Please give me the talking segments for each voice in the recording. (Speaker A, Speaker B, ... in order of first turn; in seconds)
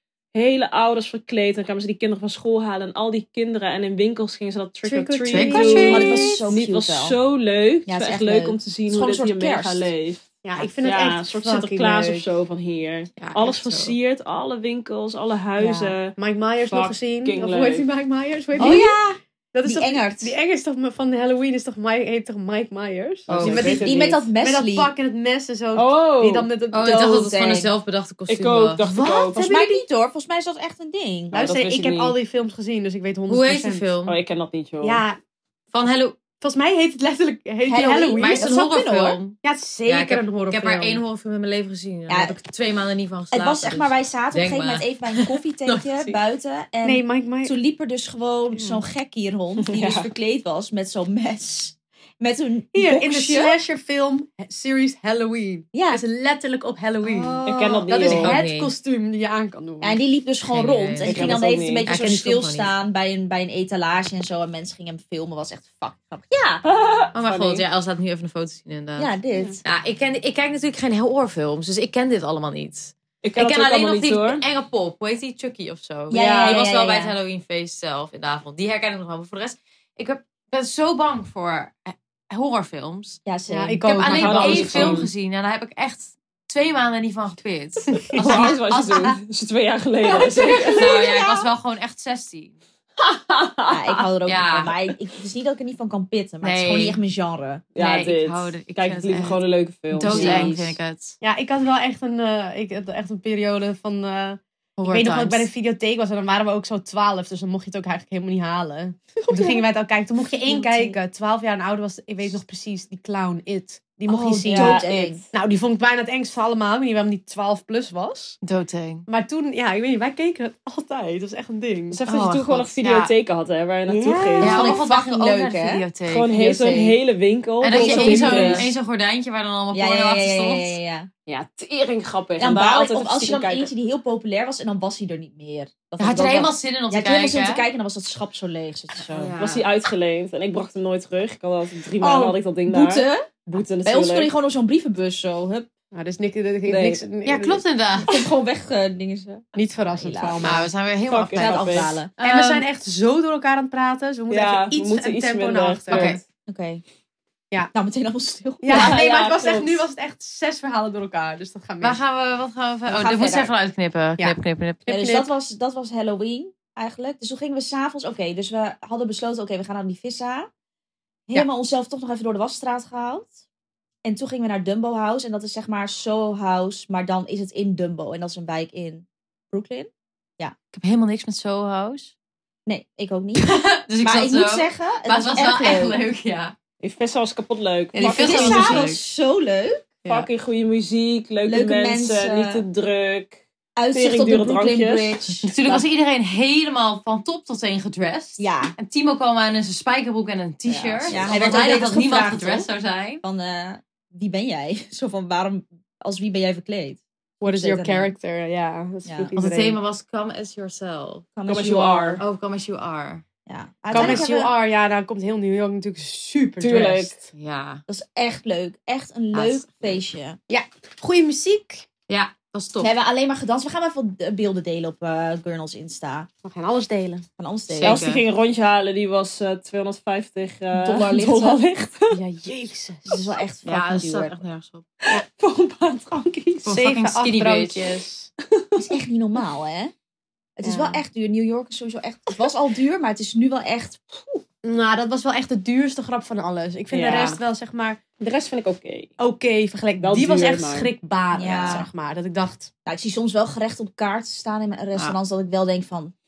Speaker A: 0.3-10.2, 10.8-17.9, 23.3-24.2, 25.7-26.5, 28.3-29.4, 31.3-32.2, 34.0-35.0, 49.6-50.1, 57.5-58.4, 61.0-61.9, 66.6-67.6, 73.2-74.4, 76.1-76.6, 84.1-85.1, 88.2-90.9, 93.0-94.0, 97.7-100.5, 114.5-115.3, 121.9-124.8, 126.1-128.7, 131.3-133.7, 139.2-144.3, 146.7-147.0, 151.1-151.9, 154.3-156.2, 158.7-159.7, 186.8-188.9, 190.1-193.4, 193.9-195.4, 211.5-212.2, 216.6-217.2, 227.8-232.2, 235.0-236.7, 238.5-238.8, 246.9-247.4, 248.2-249.1, 250.0-250.9
Speaker B: 4.8-6.0, 10.4-12.2, 16.2-19.0, 19.5-27.2, 29.3-29.8, 31.3-33.9, 34.8-35.2, 36.4-38.5, 39.4-41.0, 46.8-47.5, 48.5-48.8, 52.7-60.0, 83.5-85.0, 88.1-89.1, 101.2-118.4, 119.1-122.0, 145.9-147.6, 149.5-150.7, 152.2-156.2, 158.6-162.0, 164.2-165.3, 207.4-209.8, 213.9-217.2, 220.5-221.8, 226.4-227.2, 232.1-233.3, 236.7-238.3, 240.6-241.0, 244.6-248.0, 249.2-252.7
Speaker C: 5.3-6.5, 13.2-13.9, 23.3-23.8, 26.7-29.3, 33.3-34.2, 35.7-36.2, 38.2-46.1, 58.0-58.7, 60.5-62.7, 67.1-69.1, 69.6-83.2, 83.8-89.1, 90.6-92.5, 94.2-94.7, 96.4-97.0, 97.8-101.2, 104.8-105.5, 118.4-119.0, 122.1-123.1, 124.4-126.3, 127.6-130.8, 136.0-137.6, 139.1-139.7, 147.2-148.1, 150.4-152.7, 155.9-156.2, 161.8-164.9, 180.7-182.1, 183.4-186.6, 187.9-189.0, 195.5-203.2, 209.3-211.3, 212.2-213.2, 213.9-214.2, 217.3-217.8, 219.3-219.9, 222.1-222.9, 227.7-228.2, 233.6-234.8, 236.6-237.8
Speaker D: 5.6-7.2, 7.9-9.9, 15.6-15.9, 18.6-20.3, 23.8-24.9, 26.8-27.7, 29.3-31.4, 37.6-39.2, 42.1-42.4, 43.3-53.5, 55.7-56.0, 57.1-57.8, 59.8-66.6, 69.0-69.6, 76.1-77.1, 83.2-83.8, 90.1-91.3, 93.7-97.6, 100.0-100.8, 109.2-109.6, 110.4-111.0, 114.1-115.2, 123.9-127.0, 127.7-128.7, 129.7-131.1, 132.4-139.3, 142.0-143.3, 143.8-145.7, 148.0-150.5, 151.3-152.1, 156.5-156.8, 157.7-159.4, 162.9-163.5, 164.9-170.5, 171.3-173.3, 174.0-180.5, 182.7-186.0, 188.0-189.9, 191.4-192.6, 193.8-195.8, 198.4-198.8, 200.8-202.7, 203.2-208.1, 209.0-209.3, 211.3-212.2, 213.4-214.5, 217.9-220.4, 222.8-226.3, 227.4-228.0, 230.7-231.6, 233.1-234.4, 238.8-239.9, 240.6-244.4, 251.3-251.9, 252.8-256.1